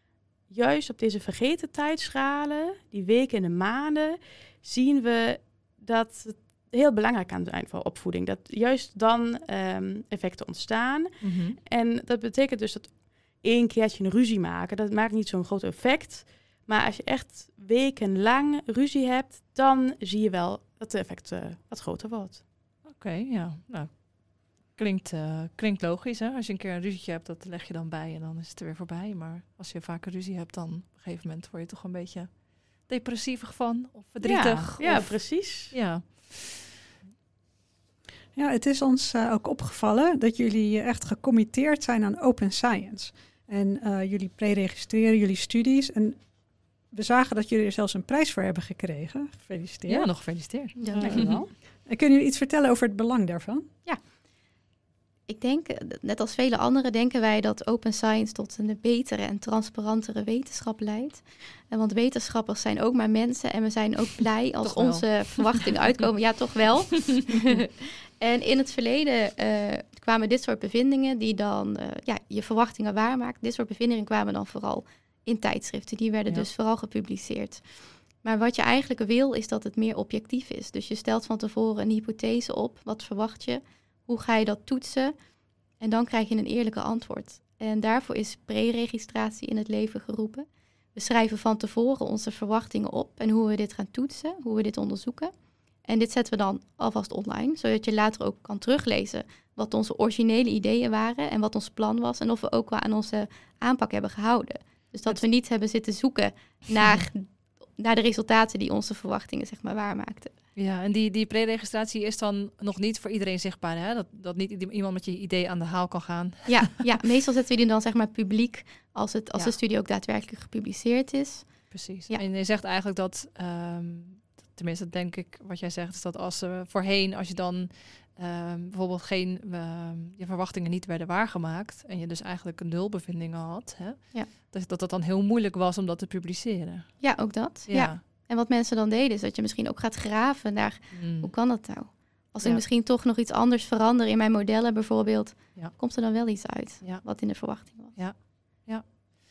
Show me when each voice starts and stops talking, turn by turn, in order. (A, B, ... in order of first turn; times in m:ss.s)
0:00.5-0:22.4 A
0:11.2-0:11.6 B
0:22.8-0:36.7 B
0:34.2-0:35.8 A
0:38.4-0:46.2 C
0:46.9-0:50.1 C
0:49.9-0:51.3 B
0:50.8-0:51.5 D
0:50.9-0:51.4 A
0:50.9-0:53.7 C
0:55.3-1:17.6 D
1:04.6-1:05.7 B
1:18.2-1:25.2 D
1:25.8-1:35.3 D
1:35.8-1:50.3 D
1:50.6-1:56.9 B
1:56.5-2:02.2 D
2:01.7-2:17.1 B
2:17.0-2:28.0 D
2:17.7-2:18.0 B
2:20.9-2:21.3 B
2:26.8-2:27.2 B
2:27.9-2:28.8 B